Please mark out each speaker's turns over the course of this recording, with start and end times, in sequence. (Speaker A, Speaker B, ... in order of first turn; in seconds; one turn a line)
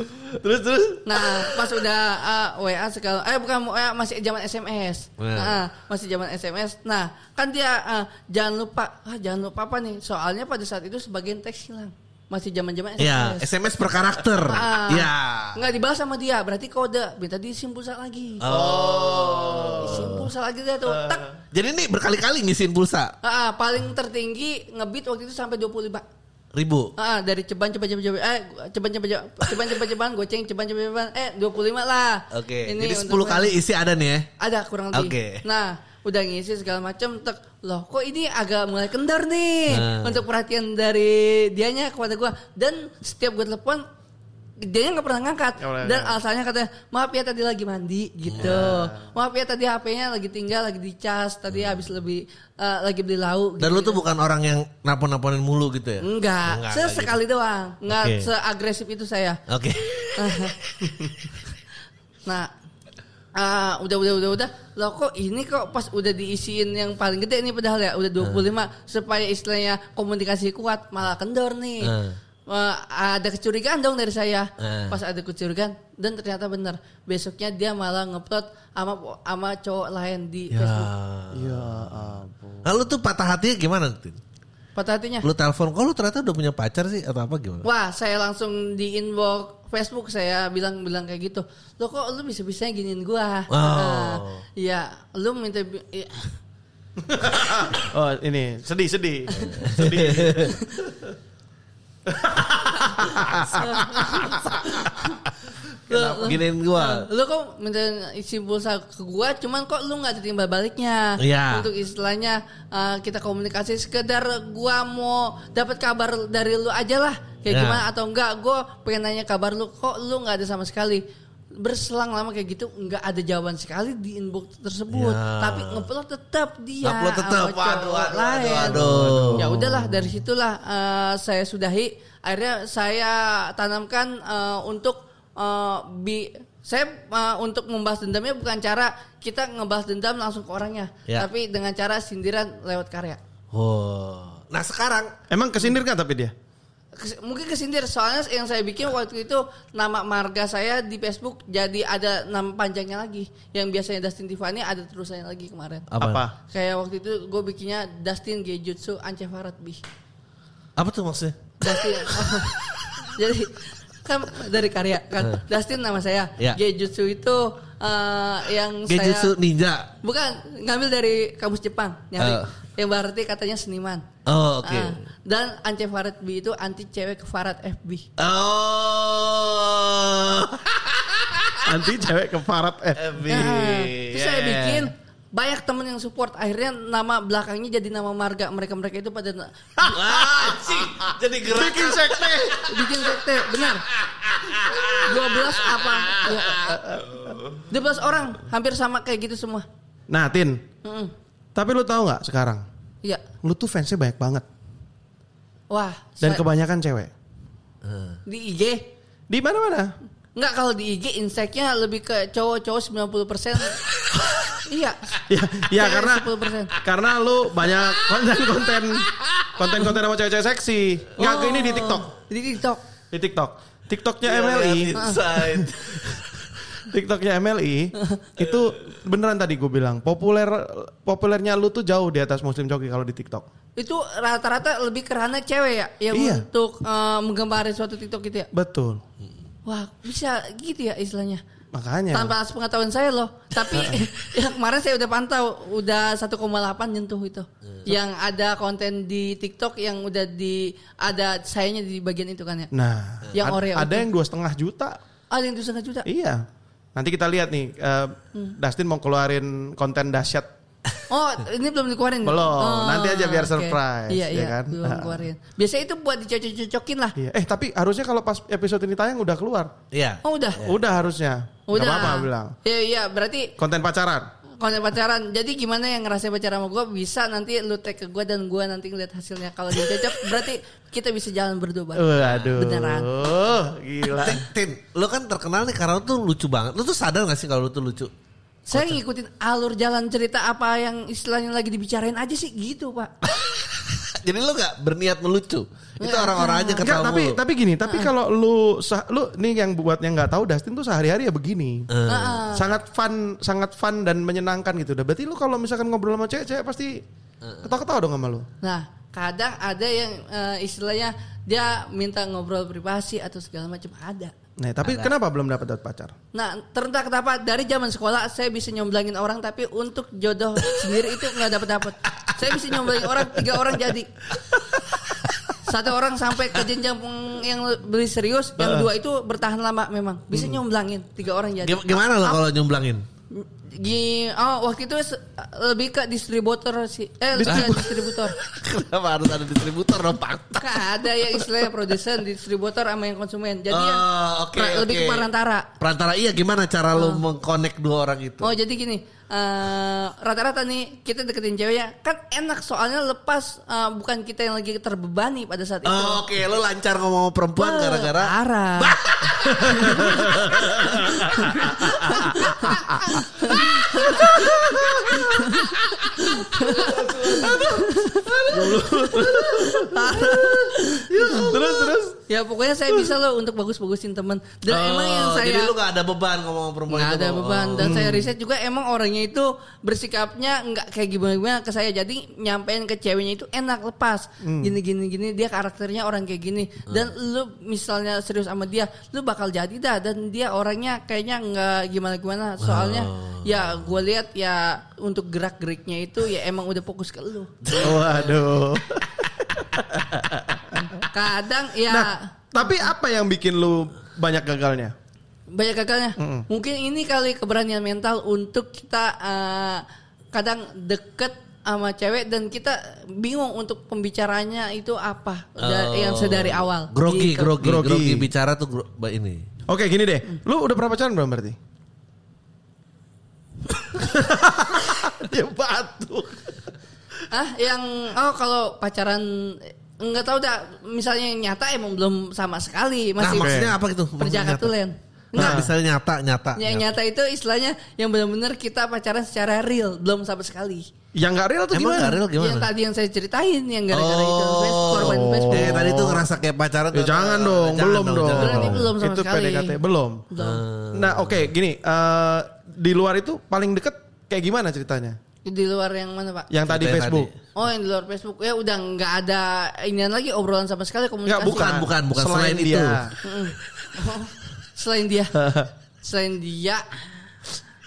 Speaker A: 0.2-1.0
Speaker B: 1.1-13.5
Speaker C: 5.2-5.6
Speaker C: 13.0-15.6
Speaker B: 14.4-18.5
Speaker C: 18.4-20.3
Speaker A: 18.5-20.1
Speaker B: 19.8-21.3
Speaker A: 20.9-21.4
Speaker C: 21.5-23.1
Speaker B: 23.2-26.1
Speaker C: 26.5-26.9
Speaker B: 27.0-33.5
Speaker C: 32.3-34.3
Speaker B: 34.4-43.9
Speaker C: 34.9-35.4
Speaker C: 39.7-40.2
Speaker B: 44.6-54.0
Speaker A: 45.6-46.2
Speaker C: 48.3-48.7
Speaker A: 48.4-49.1
Speaker C: 53.6-57.2
Speaker B: 56.0-59.4
Speaker C: 57.9-58.3
Speaker C: 59.5-61.0
Speaker B: 60.2-60.6
Speaker B: 62.3-62.5
Speaker B: 63.4-71.9
Speaker C: 71.8-72.2
Speaker B: 72.5-80.9
Speaker C: 74.6-75.0
Speaker C: 80.5-82.0
Speaker A: 81.3-82.8
Speaker C: 82.6-84.2
Speaker B: 84.8-85.3
Speaker C: 85.2-87.7
Speaker B: 87.6-96.3
Speaker C: 93.5-94.4
Speaker A: 97.0-100.6
Speaker C: 99.5-100.5
Speaker B: 100.5-100.8
Speaker A: 102.1-104.6
Speaker B: 102.9-105.1
Speaker A: 105.9-106.2
Speaker B: 105.9-121.0
Speaker C: 105.9-107.1
Speaker C: 111.2-111.7
Speaker C: 117.5-117.8
Speaker B: 121.6-128.8
Speaker C: 124.9-125.9
Speaker C: 126.8-129.9
Speaker A: 128.6-129.8
Speaker B: 129.4-143.2
Speaker C: 143.5-145.1
Speaker A: 145.3-146.3
Speaker B: 147.0-155.9
Speaker C: 155.9-156.2
Speaker A: 156.0-156.3
Speaker B: 156.5-159.8
Speaker C: 160.8-162.7
Speaker B: 161.6-169.3
Speaker C: 168.9-169.9
Speaker B: 170.0-174.1
Speaker C: 172.2-172.5
Speaker C: 174.3-175.0
Speaker B: 174.6-178.1
Speaker C: 178.2-181.7
Speaker A: 181.7-183.7
Speaker C: 183.0-184.9
Speaker B: 183.3-190.0
Speaker A: 189.8-192.7
Speaker C: 189.9-193.1
Speaker B: 192.7-193.8
Speaker C: 194.0-197.6
Speaker B: 195.0-196.8
Speaker A: 196.7-197.2
Speaker B: 197.7-199.7
Speaker A: 200.1-200.6
Speaker B: 200.8-201.1
Speaker A: 201.6-202.6
Speaker A: 203.4-204.4
Speaker B: 205.7-206.4
Speaker A: 206.2-207.1
Speaker C: 207.8-208.2
Speaker B: 208.3-208.9
Speaker A: 209.3-209.9
Speaker B: 210.3-213.8
Speaker B: 214.5-215.2
Speaker A: 215.3-222.1
Speaker B: 215.8-216.7
Speaker C: 219.2-219.5
Speaker B: 221.2-222.8
Speaker A: 223.1-226.2
Speaker C: 224.2-226.6
Speaker B: 224.9-225.2
Speaker A: 226.8-233.4
Speaker B: 228.0-228.2
Speaker B: 233.8-238.5
Speaker A: 236.1-236.5
Speaker A: 238.5-239.0
Speaker B: 239.7-241.4
Speaker A: 241.7-242.3
Speaker B: 242.1-252.7
Speaker A: 243.7-244.0
Speaker A: 252.7-255.0
Speaker B: 253.3-254.1
Speaker B: 255.3-256.1
Speaker A: 256.1-260.5
Speaker B: 261.1-267.1
Speaker A: 262.2-265.3
Speaker A: 267.2-269.7
Speaker C: 269.9-270.8
Speaker B: 270.2-270.6
Speaker A: 270.6-272.5
Speaker B: 271.7-273.5
Speaker A: 273.6-274.3
Speaker B: 274.6-283.1
Speaker A: 281.9-284.5
Speaker C: 282.2-282.6
Speaker C: 284.2-288.1
Speaker B: 288.7-293.1
Speaker C: 288.7-289.0
Speaker C: 293.3-297.4
Speaker B: 296.0-296.9
Speaker A: 296.8-301.9
Speaker C: 301.9-302.4
Speaker B: 302.1-302.7
Speaker A: 302.5-307.0
Speaker C: 307.4-307.7
Speaker A: 307.6-308.5
Speaker B: 308.6-314.3
Speaker A: 314.6-316.1
Speaker C: 314.8-315.1
Speaker B: 316.3-324.1
Speaker C: 322.9-323.3
Speaker B: 325.6-332.4
Speaker A: 328.6-328.9
Speaker C: 331.6-333.1
Speaker B: 333.3-338.4
Speaker A: 337.3-337.9
Speaker C: 337.5-341.5
Speaker B: 340.6-345.7
Speaker C: 343.7-348.5
Speaker B: 346.9-347.2
Speaker B: 348.4-356.2
Speaker C: 355.9-365.1
Speaker B: 357.6-359.0
Speaker B: 359.6-360.3
Speaker A: 359.8-363.2
Speaker B: 361.3-364.6
Speaker A: 364.0-365.4
Speaker B: 365.1-371.6
Speaker C: 365.9-369.6
Speaker A: 366.9-367.9
Speaker A: 368.5-372.2
Speaker C: 371.2-371.6
Speaker B: 372.3-375.8
Speaker C: 374.7-378.0
Speaker B: 376.9-397.8
Speaker A: 377.8-378.3
Speaker A: 384.4-384.7
Speaker C: 392.6-393.9
Speaker C: 397.6-398.4
Speaker A: 397.8-401.0
Speaker B: 401.0-402.3
Speaker A: 401.9-404.9
Speaker B: 405.5-417.5
Speaker A: 406.2-406.5
Speaker C: 415.6-419.5
Speaker A: 417.6-418.3
Speaker A: 419.7-421.6
Speaker A: 423.9-426.6
Speaker B: 427.3-435.6
Speaker C: 433.2-434.7
Speaker A: 433.4-433.7
Speaker C: 435.3-436.9
Speaker A: 435.4-435.7
Speaker B: 436.6-440.9
Speaker A: 441.1-442.2
Speaker C: 441.7-442.7
Speaker B: 442.4-445.8
Speaker C: 443.9-448.9
Speaker A: 444.9-446.3
Speaker A: 446.9-450.3
Speaker B: 448.4-449.8
Speaker B: 450.3-450.6
Speaker C: 450.4-451.5
Speaker A: 450.9-455.2
Speaker B: 455.4-456.5
Speaker A: 456.5-457.3
Speaker C: 456.7-457.3
Speaker B: 457.6-461.8
Speaker A: 461.2-463.1
Speaker C: 461.4-463.1
Speaker B: 463.2-465.3
Speaker A: 465.3-465.7
Speaker B: 466.0-467.1